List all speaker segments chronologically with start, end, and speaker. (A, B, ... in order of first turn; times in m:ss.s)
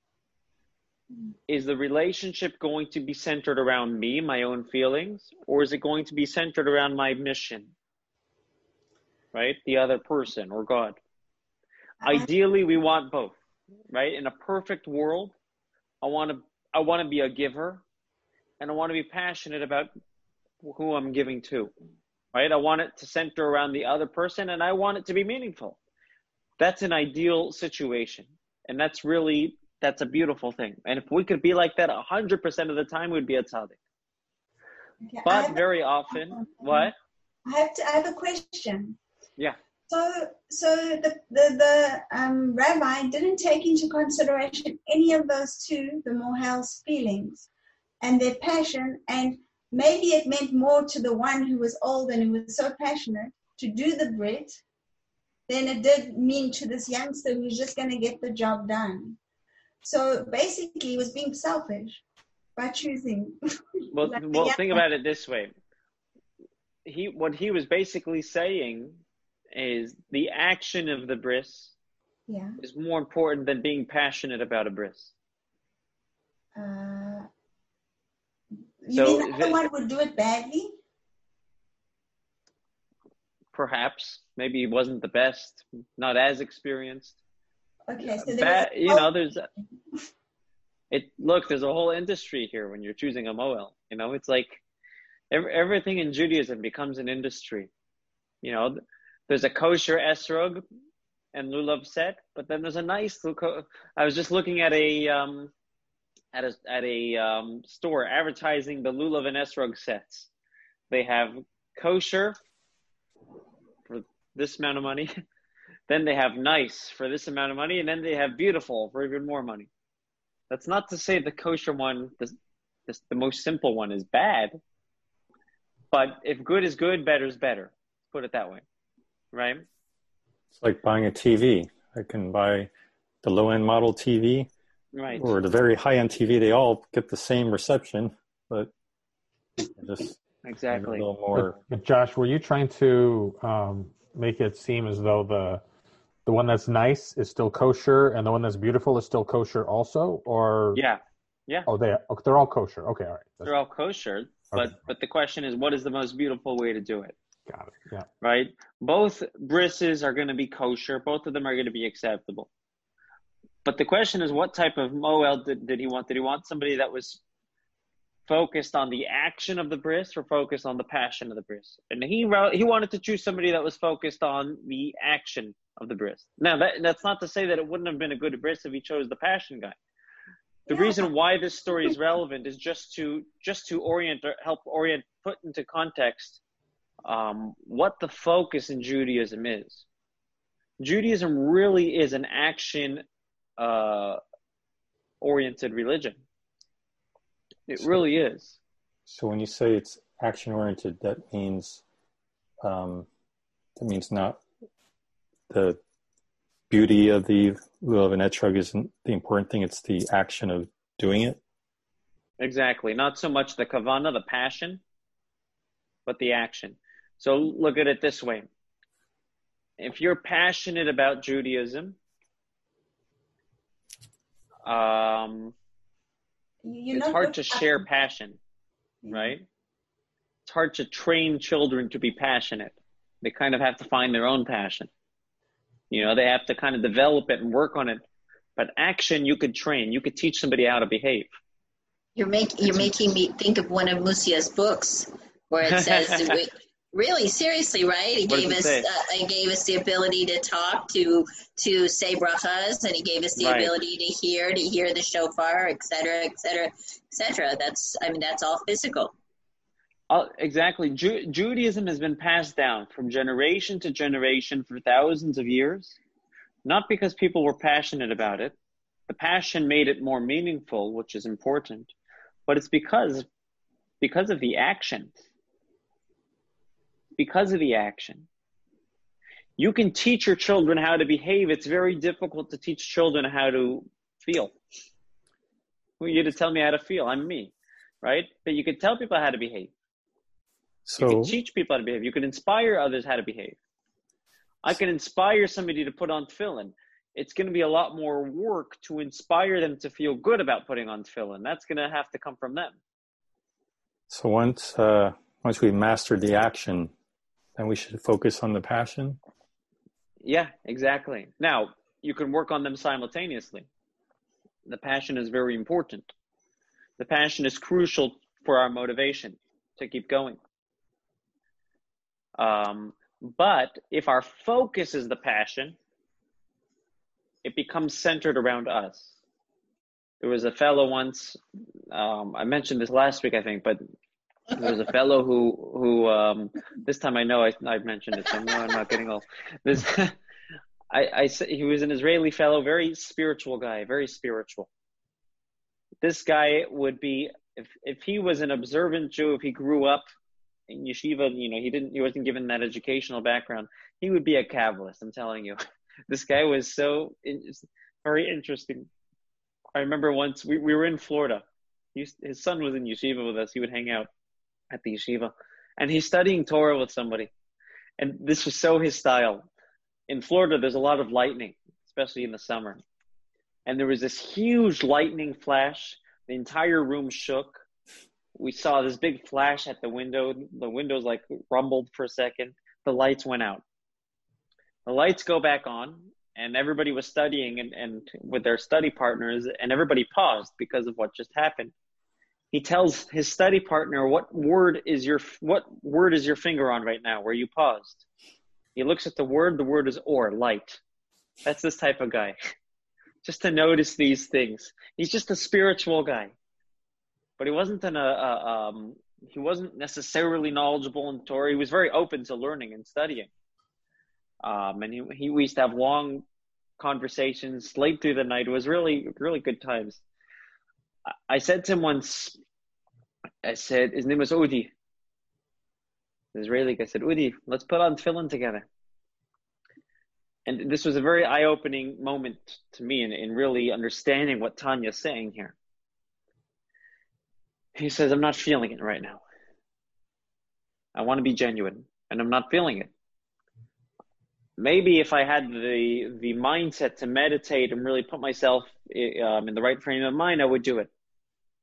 0:01.5-0:07.7 A
0:09.3-0:11.0 A
0:12.0-0:12.3 B
0:12.0-0:13.3 A
0:13.9-0:15.3 A
0:16.0-0:17.8 A
0:18.6-0:19.9 A
0:20.6-0:21.7 A
0:22.3-0:25.8 A
0:26.6-0:33.8 A
0:35.0-0:35.6 B
0:35.2-0:36.9 A
0:36.1-0:36.9 B
0:37.4-0:39.0 B
0:39.9-0:47.5 B
0:48.0-0:54.6 B
0:55.5-0:59.2 B
0:59.8-1:02.0 B
1:02.6-1:04.8 B
1:03.9-1:05.5 A
1:06.8-1:09.0 A
1:09.5-1:11.7 A
1:12.3-1:12.6 B
1:12.6-1:15.1 A
1:16.6-1:17.3 B
1:18.8-1:20.8 B
1:18.9-1:19.6 A
1:23.5-1:27.2 A
1:27.9-1:29.1 B
1:28.0-1:29.5 A
1:30.9-1:34.6 A
1:35.3-1:37.7 A
1:38.4-1:40.6 A
1:41.3-1:45.5 A
1:46.3-1:50.3 A
1:50.9-1:52.4 A
1:53.9-1:55.1 A
1:55.9-1:59.7 A
2:00.5-2:02.3 A
2:02.9-2:04.6 A
2:05.9-2:08.6 A
2:09.3-2:09.6 A
2:10.5-2:12.7 C
2:13.2-2:14.5 C
2:14.9-2:15.3 A
2:15.1-2:18.7 C
2:19.8-2:21.6 C
2:20.4-2:21.0 A
2:21.3-2:25.6 D
2:26.2-2:30.8 D
2:30.7-2:31.7 A
2:31.6-2:33.5 D
2:33.4-2:37.1 A
2:37.5-2:38.1 D
2:38.2-2:42.5 A
2:43.6-2:47.2 A
2:48.2-2:59.8 A
3:00.7-3:06.4 A
3:00.7-3:01.0 B
3:07.0-3:09.8 A
3:10.8-3:13.0 A
3:13.6-3:14.2 A
3:15.2-3:16.2 A
3:17.7-3:18.6 A
3:19.1-3:21.8 C
3:22.6-3:23.1 C
3:23.8-3:24.4 C
3:25.5-3:25.8 C
3:26.7-3:31.4 C
3:32.4-3:34.8 A
3:36.0-3:38.5 A
3:39.8-3:42.0 A
3:44.6-3:45.5 A
3:46.6-3:47.8 B
3:46.9-3:48.4 A
3:49.0-3:49.4 B
3:49.1-3:49.4 A
3:50.4-3:54.9 A
3:55.9-3:58.0 A
3:58.6-4:01.3 A
4:02.2-4:19.1 E
4:05.6-4:06.4 A
4:08.3-4:08.8 A
4:13.4-4:13.7 A
4:20.1-4:26.0 A
4:26.6-4:28.5 A
4:29.1-4:31.9 A
4:32.5-4:33.2 A
4:34.0-4:35.1 A
4:37.2-4:38.3 A
4:39.6-4:44.5 A
4:46.0-4:49.7 A
4:50.8-4:51.3 C
4:51.0-4:53.6 A
4:54.6-5:02.8 A
5:04.1-5:06.9 C
5:07.6-5:09.2 C
5:10.2-5:13.7 A
5:14.6-5:16.1 A
5:17.0-5:20.4 A
5:22.4-5:25.8 A
5:27.4-5:29.1 A
5:30.2-5:31.4 A
5:31.9-5:33.8 A
5:34.5-5:40.1 A
5:40.9-5:44.7 A
5:46.0-5:50.0 A
5:50.7-5:55.6 A
5:56.1-5:58.9 A
5:59.7-6:01.4 A
6:01.9-6:04.1 A
6:04.7-6:07.3 A
6:08.0-6:09.5 A
6:10.1-6:12.8 A
6:13.6-6:17.6 A
6:18.3-6:23.6 A
6:24.8-6:31.7 A
6:32.5-6:38.0 A
6:38.8-6:40.8 A
6:41.4-6:42.4 A
6:43.2-6:46.3 A
6:47.4-6:53.3 A
6:54.4-6:56.2 A
6:56.8-7:00.0 A
7:01.3-7:02.4 A
7:03.4-7:04.7 A
7:06.3-7:08.6 A
7:10.4-7:15.6 A
7:17.8-7:19.2 A
7:20.9-7:22.9 A
7:24.6-7:30.9 A